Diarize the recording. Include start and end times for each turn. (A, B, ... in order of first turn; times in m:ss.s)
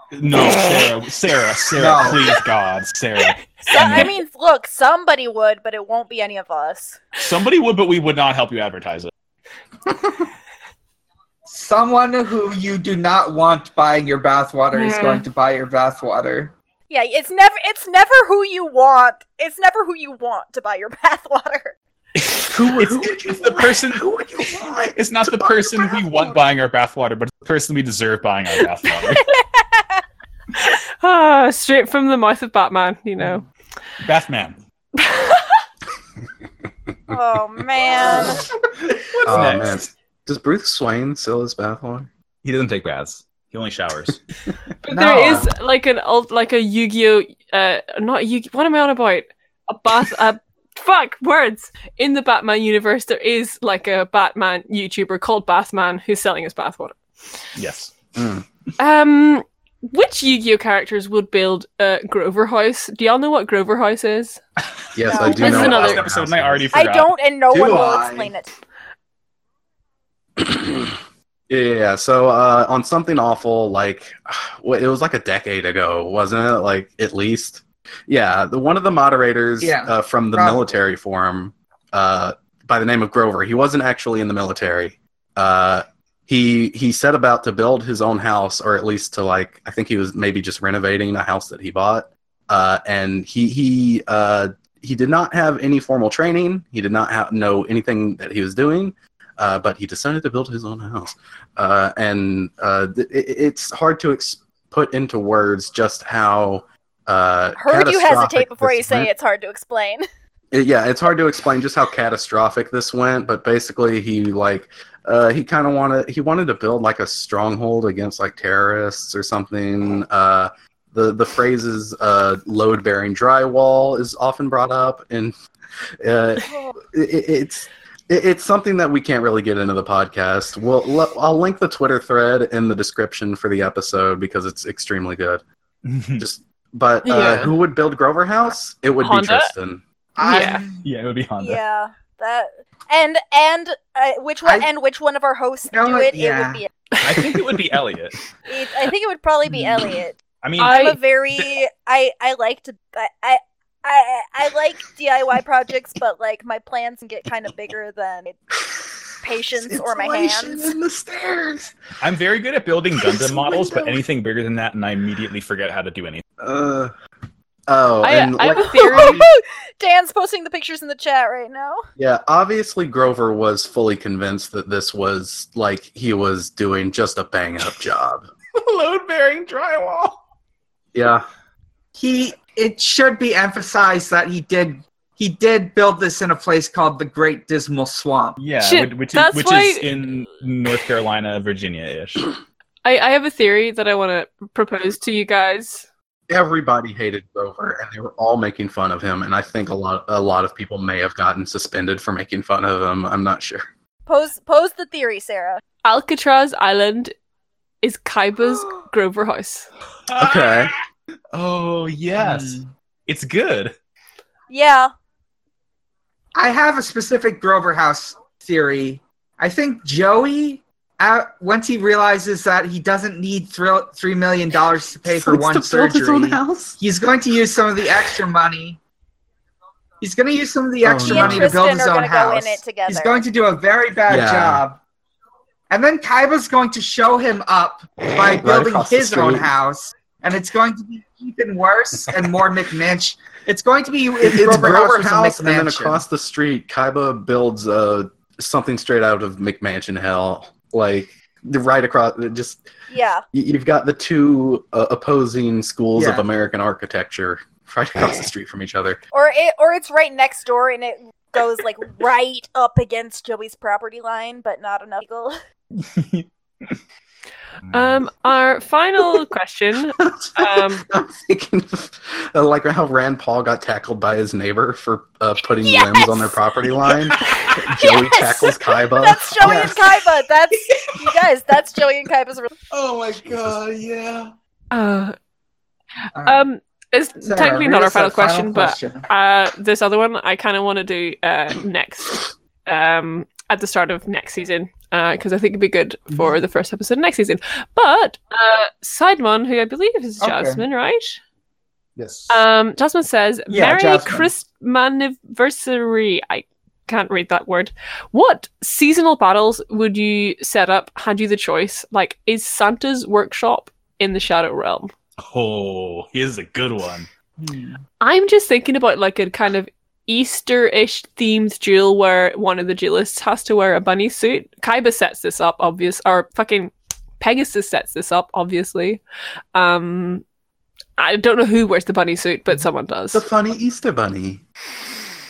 0:00.1-0:04.1 A
0:01.8-0:02.3 B
0:03.3-0:04.1 C
0:03.7-0:07.0 D
0:07.2-0:09.1 A
0:11.5-0:16.5 B
0:14.7-0:15.2 C
0:16.9-0:21.8 D
0:22.2-0:24.1 A
0:22.5-0:26.4 E
0:25.0-0:29.3 A
0:29.2-0:30.0 D
0:30.6-0:33.5 C
0:34.0-0:34.6 A
0:35.0-0:35.6 C
0:37.1-0:38.4 D
0:38.8-0:39.9 A
0:39.3-0:42.1 E
0:42.4-0:44.2 A
0:44.8-0:57.0 C
0:44.9-0:45.5 B
0:57.6-0:58.1 A
0:58.2-0:58.4 E
0:58.8-1:04.4 C
1:04.9-1:06.7 E
1:05.1-1:05.7 D
1:05.2-1:07.2 A
1:05.2-1:06.1 C
1:06.7-1:08.5 D
1:07.5-1:08.3 B
1:10.4-1:49.1 E
1:19.6-1:20.7 B
1:47.6-1:50.1 D
1:50.5-2:05.4 E
2:06.0-2:15.4 E
2:06.5-2:06.7 D
2:15.8-2:16.2 A
2:16.2-2:19.8 E
2:17.0-2:17.5 C
2:19.0-2:19.5 C
2:20.2-2:20.8 B
2:20.2-2:20.6 C
2:20.8-2:21.6 A
2:21.4-2:26.7 D
2:24.4-2:24.7 B
2:25.7-2:26.6 B
2:27.0-2:27.3 C
2:27.0-2:28.2 A
2:28.5-2:38.5 D
2:30.4-2:31.5 A
2:30.6-2:31.0 C
2:39.2-2:40.7 D
2:39.5-2:41.7 E
2:42.0-2:46.2 A
2:43.0-2:44.0 E
2:46.4-2:46.9 E
2:47.7-2:49.3 E
2:48.0-2:49.2 C
2:48.6-2:51.8 D
2:52.0-2:58.3 E
2:58.6-3:00.2 A
3:00.9-3:01.2 E
3:02.0-3:08.4 B
3:08.4-3:12.3 A
3:08.6-3:09.9 C
3:12.8-3:15.9 C
3:16.3-3:23.7 E
3:24.1-3:25.6 D
3:25.8-3:27.1 C
3:27.8-3:29.7 C
3:30.1-3:30.8 A
3:30.2-3:30.7 E
3:31.3-3:33.7 A
3:32.2-3:32.7 B
3:34.5-3:34.9 D
3:36.4-3:48.8 B
3:45.0-3:46.8 E
3:50.0-3:54.8 B
3:50.8-3:51.6 E
3:51.0-3:53.2 D
3:54.1-3:54.6 E
3:55.7-4:06.0 B
3:58.4-3:59.5 E
4:04.2-4:12.7 E
4:12.9-4:13.2 D
4:13.3-4:19.0 E
4:16.0-4:16.3 B
4:19.1-4:25.4 D
4:25.7-4:26.8 A
4:27.6-4:28.0 A
4:27.7-4:30.9 C
4:30.0-4:39.8 E
4:35.6-4:36.4 D
4:37.1-4:37.6 A
4:37.7-4:42.5 D
4:39.5-4:39.7 B
4:42.8-4:43.6 B
4:43.3-4:43.6 A
4:44.7-4:45.2 C
4:46.2-4:46.4 B
4:46.2-5:01.2 C
4:47.2-4:49.1 B
5:00.2-5:00.6 B
5:02.0-5:02.4 A
5:02.3-5:14.9 C
5:03.5-5:04.3 B
5:15.2-5:17.1 A
5:17.4-5:17.8 B
5:18.0-5:29.0 C
5:29.6-5:30.2 C
5:31.0-5:33.2 C
5:33.1-5:34.4 E